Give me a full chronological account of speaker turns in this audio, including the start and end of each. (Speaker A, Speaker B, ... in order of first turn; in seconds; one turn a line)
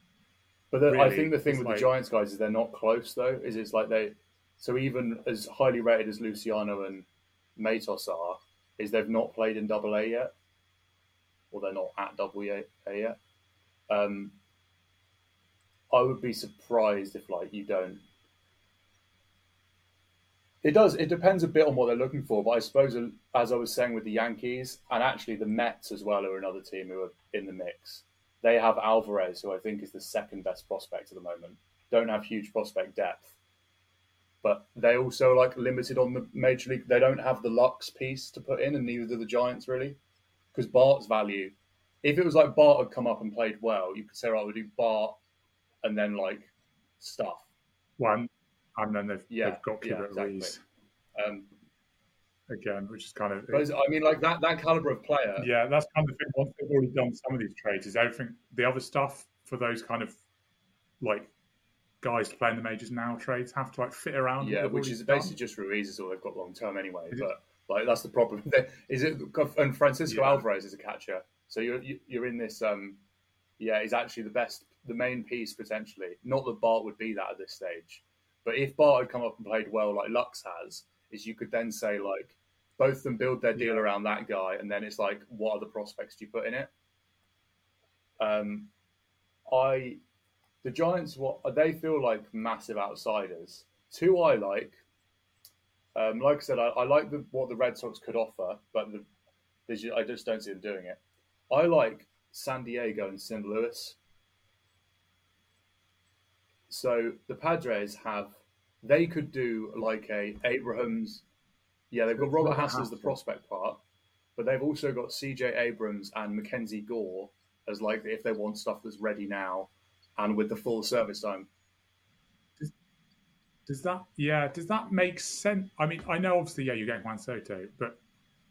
Speaker A: 0.7-10.3
Speaker B: 0.8-1.9
Speaker A: 11.5-13.2
Speaker A: 13.9-14.3
Speaker A: 15.9-18.0
Speaker A: 20.6-33.4
Speaker A: 34.4-40.0
Speaker A: 40.5-45.2
Speaker A: 45.8-47.5
Speaker B: 48.0-50.6
Speaker A: 49.3-50.6
Speaker A: 51.1-51.5
Speaker B: 52.5-53.7
Speaker A: 53.5-55.5
Speaker B: 55.4-60.2
Speaker B: 61.0-61.3
Speaker B: 62.0-65.3
Speaker A: 64.4-73.0
Speaker B: 70.1-70.4
Speaker A: 73.6-86.7
Speaker B: 83.5-83.9
Speaker A: 88.2-88.7
Speaker A: 89.5-90.0
Speaker A: 90.6-94.8
Speaker A: 95.9-99.0
Speaker A: 99.7-104.0
Speaker A: 106.7-111.2
Speaker A: 111.9-113.8
Speaker B: 112.1-113.2
Speaker A: 114.3-121.5
Speaker B: 123.7-128.0